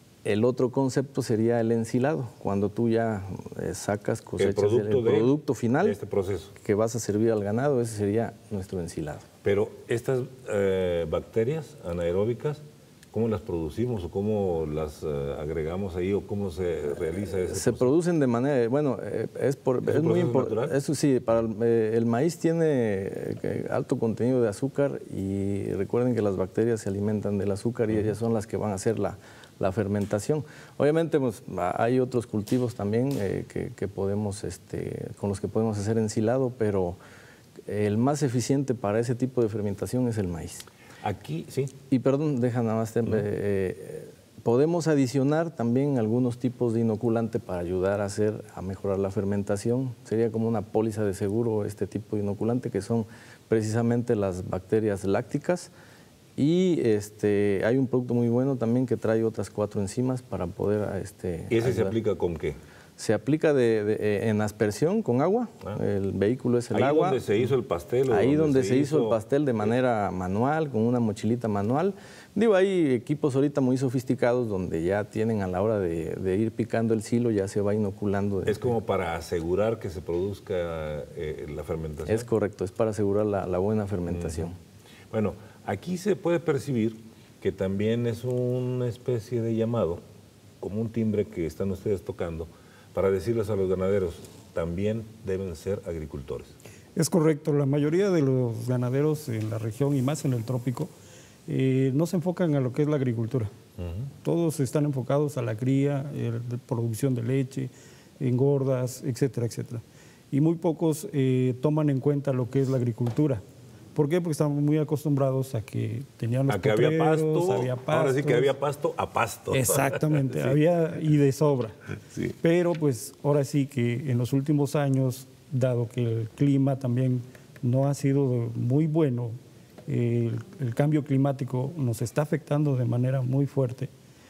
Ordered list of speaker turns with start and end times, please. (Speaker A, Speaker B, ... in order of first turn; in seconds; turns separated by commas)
Speaker A: 0.2-6.0, Speaker B: 4.4-6.6, Speaker A: 6.6-9.3, Speaker B: 9.4-12.6, Speaker B: 13.1-17.9, Speaker A: 17.5-37.0, Speaker B: 19.9-20.7, Speaker A: 37.7-40.7, Speaker B: 41.0-41.7, Speaker A: 41.9-55.7, Speaker A: 56.4-62.0, Speaker B: 61.5-62.6, Speaker A: 63.0-67.2, Speaker B: 66.7-69.2, Speaker A: 68.1-78.7, Speaker B: 78.5-82.3, Speaker A: 82.1-84.6, Speaker B: 84.1-84.5, Speaker B: 85.1-90.0, Speaker B: 90.6-96.5, Speaker C: 97.0-100.9, Speaker C: 101.5-103.5, Speaker B: 103.8-104.1, Speaker C: 104.2-113.4, Speaker C: 113.9-118.5, Speaker B: 116.5-120.6, Speaker C: 119.5-121.8, Speaker C: 122.4-133.9